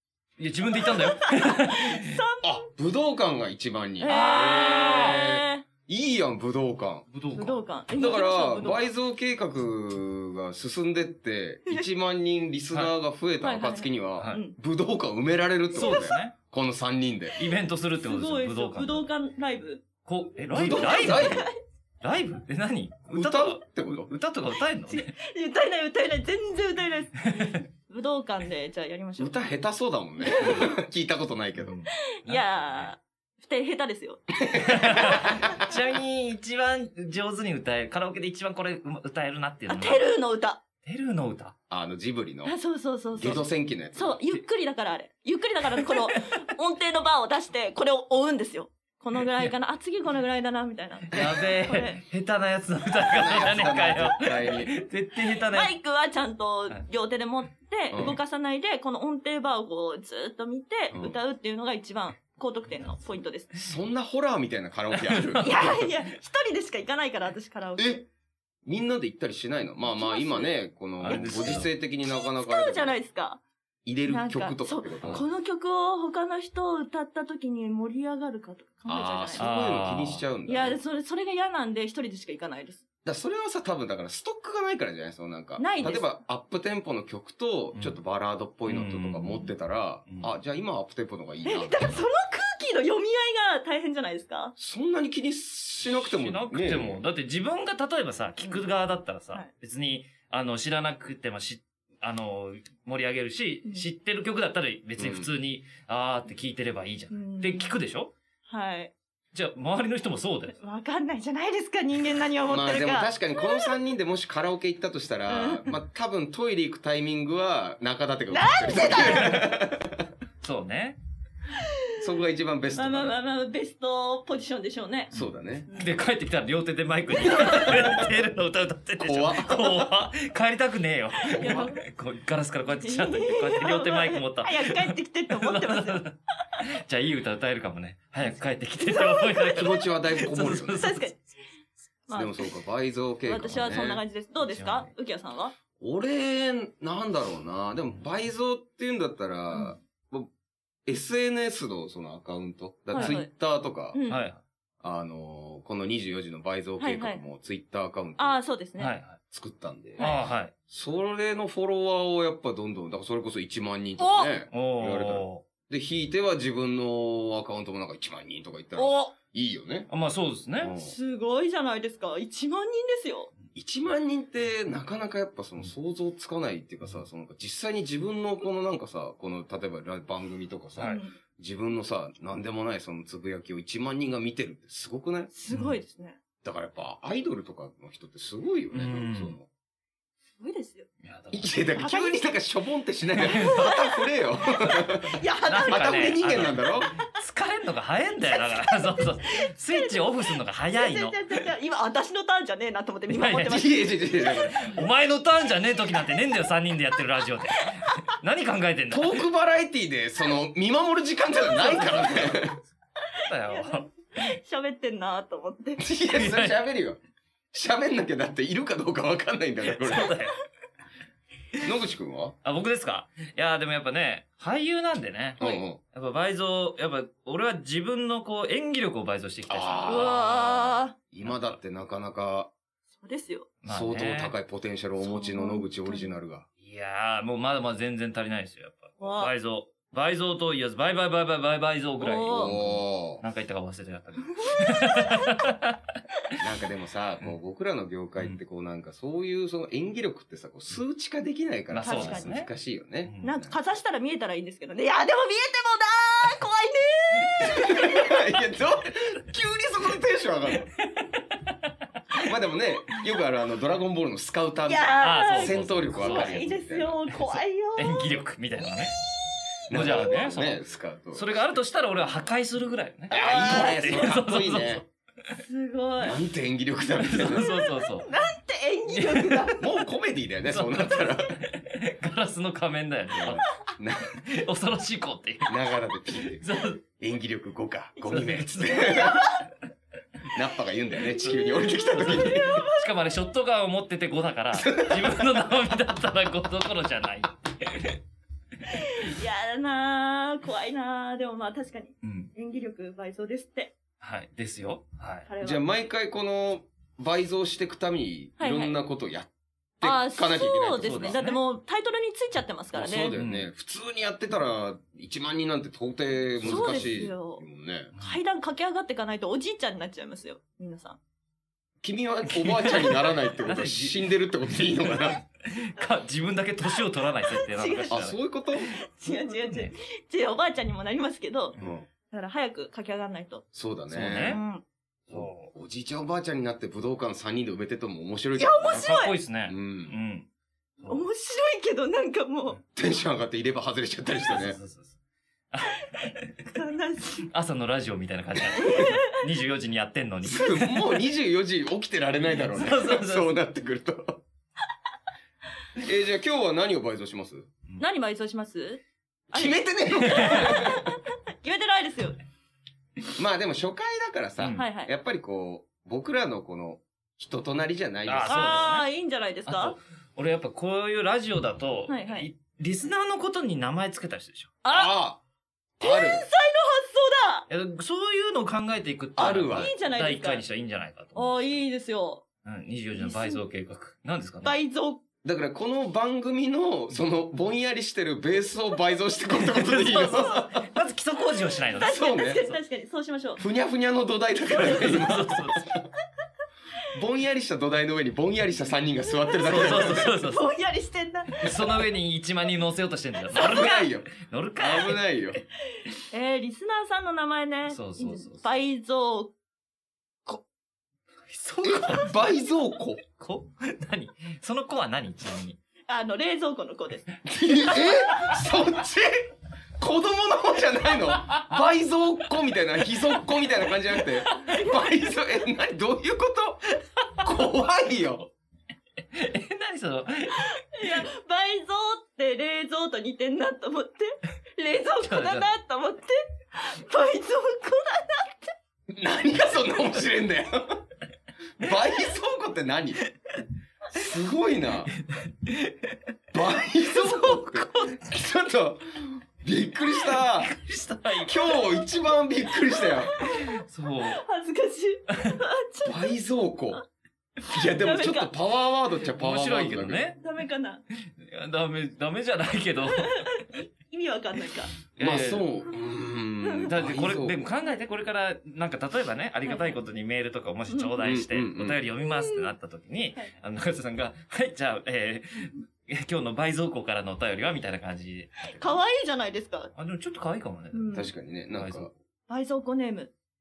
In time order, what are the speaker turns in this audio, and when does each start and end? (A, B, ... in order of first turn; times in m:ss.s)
0:00.4-0:02.1 A
0:00.8-0:02.7 B
0:02.4-0:07.1 C
0:04.0-0:05.7 B
0:04.0-0:05.2 A
0:07.1-0:07.6 A
0:07.4-0:08.9 B
0:08.0-0:17.4 C
0:13.4-0:14.6 B
0:14.2-0:14.4 A
0:15.7-0:16.3 A
0:15.8-0:16.2 B
0:17.4-0:19.1 A
0:18.0-0:19.8 B
0:20.1-0:21.5 A
0:20.5-0:21.5 C
0:20.7-0:21.6 B
0:22.0-0:25.1 A
0:23.1-0:24.1 C
0:24.9-0:29.4 B
0:27.3-0:27.6 A
0:29.2-0:31.8 C
0:30.2-0:30.8 B
0:31.6-0:32.9 A
0:32.1-0:35.6 B
0:34.5-0:35.8 C
0:34.6-0:40.1 A
0:39.7-0:40.6 B
0:40.8-0:41.6 A
0:41.7-0:42.6 C
0:42.4-0:52.0 B
0:43.2-0:44.2 C
0:51.1-0:51.4 C
0:51.1-0:55.7 A
0:53.1-0:54.7 C
0:55.5-1:03.5 B
0:57.9-0:58.2 C
1:00.9-1:01.2 C
1:03.6-1:05.4 C
1:04.9-1:05.9 A
1:05.4-1:08.0 B
1:07.8-1:08.0 C
1:08.6-1:13.0 C
1:09.9-1:13.4 B
1:11.0-1:11.7 A
1:13.8-1:15.2 C
1:14.1-1:19.5 B
1:18.9-1:20.8 C
1:19.4-1:20.2 A
1:20.5-1:22.8 B
1:23.0-1:32.0 C
1:25.6-1:26.2 B
1:28.7-1:29.5 A
1:30.1-1:30.3 A
1:31.4-1:34.6 B
1:34.6-1:37.0 C
1:35.9-1:48.1 A
1:45.0-1:45.3 C
1:47.1-1:47.8 B
1:48.5-1:48.9 B
1:49.3-1:50.6 A
1:50.5-1:53.7 B
1:52.5-2:00.0 C
1:55.3-1:55.7 B
1:58.3-1:59.5 B
2:00.4-2:01.0 A
2:02.0-2:03.2 C
2:02.7-2:05.1 B
2:05.1-2:05.7 C
2:05.2-2:21.1 A
2:07.2-2:07.8 B
2:07.4-2:08.0 C
2:09.0-2:09.9 C
2:11.3-2:11.6 C
2:11.3-2:11.8 B
2:12.8-2:16.0 B
2:18.8-2:19.7 B
2:19.5-2:20.9 C
2:20.7-2:21.2 B
2:22.1-2:22.5 B
2:22.1-2:24.0 C
2:23.3-2:25.6 B
2:24.5-2:24.9 A
2:25.8-2:30.3 C
2:30.9-2:34.0 C
2:32.9-2:33.3 B
2:32.9-2:33.2 A
2:33.9-2:34.3 B
2:34.1-2:34.4 A
2:34.8-2:38.4 C
2:36.8-2:37.2 B
2:38.2-2:39.0 B
2:38.8-2:39.2 A
2:39.3-2:40.1 C
2:40.0-2:40.2 B
2:40.0-2:40.5 A
2:40.7-2:49.9 C
2:44.0-2:44.3 B
2:44.5-2:45.4 A
2:48.8-2:49.1 B
2:49.9-2:50.8 A
2:50.6-2:50.9 C
2:50.8-2:53.3 B
2:53.6-3:05.3 C
3:00.8-3:01.1 B
3:05.3-3:06.2 B
3:06.4-3:09.5 C
3:08.7-3:09.4 A
3:10.4-3:10.9 B
3:11.0-3:11.5 A
3:11.3-3:16.9 C
3:11.8-3:12.2 B
3:13.1-3:13.8 A
3:13.2-3:13.8 B
3:15.1-3:16.0 B
3:15.5-3:21.3 A
3:18.2-3:24.5 B
3:23.1-3:23.6 A
3:23.5-3:24.6 C
3:24.3-3:29.2 A
3:28.9-3:32.6 C
3:31.6-3:32.5 A
3:33.2-3:35.8 B
3:33.3-3:33.9 A
3:35.8-3:37.0 C
3:36.1-3:36.6 A
3:37.5-3:40.1 C
3:39.7-3:40.4 A
3:41.6-3:42.4 C
3:42.4-3:50.2 A
3:45.4-3:45.8 C
3:49.5-3:52.5 C
3:49.9-3:51.0 B
3:51.2-3:51.5 A
3:53.0-3:53.5 B
3:53.6-3:54.3 A
3:53.7-3:56.5 C
3:55.0-3:56.1 B
3:56.6-4:05.8 A
3:59.0-3:59.3 B
4:02.0-4:02.6 B
4:02.3-4:03.2 C
4:04.4-4:05.5 B
4:06.4-4:13.6 C
4:11.7-4:12.5 A
4:11.8-4:12.3 B
4:13.0-4:13.3 A
4:13.2-4:18.2 B
4:17.4-4:20.7 C
4:20.9-4:21.2 A
4:22.2-4:27.0 C
4:24.7-4:28.2 B
4:25.0-4:26.5 A
4:27.1-4:29.0 A
4:29.7-4:31.5 C
4:29.7-4:34.8 A
4:33.1-4:34.1 B
4:33.1-4:34.8 C
4:35.4-4:36.2 B
4:36.0-4:37.4 C
4:37.0-4:38.1 A
4:37.3-4:39.7 B
4:38.9-4:39.5 A
4:39.6-4:41.4 C
4:40.5-4:43.4 A
4:43.2-4:44.2 C
4:44.2-4:45.6 A
4:45.5-4:49.3 C
4:46.4-4:46.8 A
4:48.0-4:49.2 A
4:48.9-4:49.4 B
4:50.3-4:52.6 C
4:51.2-4:52.9 B
4:52.0-4:58.0 A
4:54.5-4:55.5 C
4:58.7-5:03.8 B
5:02.0-5:02.3 A
5:04.0-5:05.3 A
5:05.3-5:05.7 B
5:05.4-5:09.3 C
5:08.4-5:08.8 B
5:09.8-5:11.2 C
5:09.8-5:13.2 B
5:10.8-5:11.4 A
5:12.7-5:17.9 C
5:13.1-5:13.5 A
5:16.4-5:17.0 A
5:16.4-5:17.4 B
5:18.0-5:21.0 B
5:21.8-5:25.2 C
5:22.3-5:24.0 A
5:24.5-5:28.2 A
5:27.3-5:28.0 B
5:27.9-5:28.7 C
5:28.7-5:31.6 B
5:29.1-5:29.7 A
5:31.6-5:31.9 C
5:32.1-5:33.4 B
5:33.5-5:34.4 C
5:33.9-5:34.4 A
5:34.2-5:34.6 B
5:35.1-5:38.9 C
5:35.1-5:35.5 A
5:38.4-5:39.1 B
5:38.7-5:40.3 A
5:39.5-5:40.0 C
5:40.8-5:41.0 A
5:40.8-5:42.6 B
5:42.8-5:44.6 C
5:44.3-5:45.0 A
5:45.5-5:46.4 A
5:46.0-5:47.3 B
5:47.3-5:50.9 A
5:48.5-5:49.2 B
5:50.2-5:54.2 C
5:52.4-5:53.3 A
5:55.8-5:57.5 C
5:57.8-5:58.8 B
5:59.3-6:00.9 C
5:59.3-6:02.2 B
6:00.2-6:00.5 A
6:03.2-6:08.6 C
6:04.4-6:04.6 A
6:04.6-6:04.9 B
6:08.1-6:08.9 A
6:08.3-6:09.8 B
6:09.5-6:14.6 A
6:11.9-6:12.3 B
6:14.6-6:15.0 B
6:14.7-6:15.2 C
6:15.8-6:16.2 C
6:15.8-6:17.5 B
6:17.5-6:21.6 A
6:19.2-6:19.7 C
6:19.5-6:20.4 B
6:21.2-6:22.2 B
6:22.4-6:24.6 A
6:23.0-6:23.4 B
6:24.4-6:25.0 B
6:25.2-6:30.6 C
6:29.4-6:32.6 A
6:31.8-6:33.4 B
6:31.8-6:32.4 C
6:33.4-6:35.9 C
6:34.6-6:35.7 A
6:36.9-6:40.1 C
6:39.3-6:41.6 B
6:39.4-6:40.4 A
6:41.4-6:45.0 A
6:43.3-6:45.4 C
6:43.4-6:43.8 B
6:46.1-6:49.3 B
6:47.7-6:48.4 A
6:51.3-6:52.2 A
6:51.6-6:53.0 C
6:53.1-6:55.6 A
6:55.9-6:57.1 B
6:57.2-7:08.3 C
7:01.2-7:01.5 A
7:04.5-7:04.8 B
7:09.1-7:11.0 A
7:10.4-7:18.5 B
7:15.0-7:15.5 A
7:18.9-7:20.8 C
7:21.6-7:23.0 C
7:23.9-7:24.9 C
7:25.0-7:26.0 A
7:26.3-7:30.5 C
7:27.0-7:27.7 A
7:30.2-7:31.4 A
7:31.2-7:33.2 C
7:32.8-7:33.5 B
7:33.4-7:34.2 A
7:34.1-7:36.1 B
7:35.8-7:36.8 C
7:37.5-7:40.1 C
7:37.7-7:38.3 B
7:39.1-7:40.2 A
7:40.2-7:40.8 B
7:41.2-7:43.4 A
7:42.9-7:44.7 B
7:45.0-7:45.5 A
7:45.0-7:47.5 C
7:46.4-7:46.7 B
7:46.7-7:58.8 A
7:49.4-7:49.8 B
7:50.7-7:51.0 B
7:51.0-7:51.8 C
7:52.1-7:52.5 B
7:58.5-7:59.7 B
7:59.8-8:01.0 A
8:00.7-8:01.1 B
8:00.9-8:01.9 C
8:01.5-8:01.9 A
8:02.3-8:03.1 B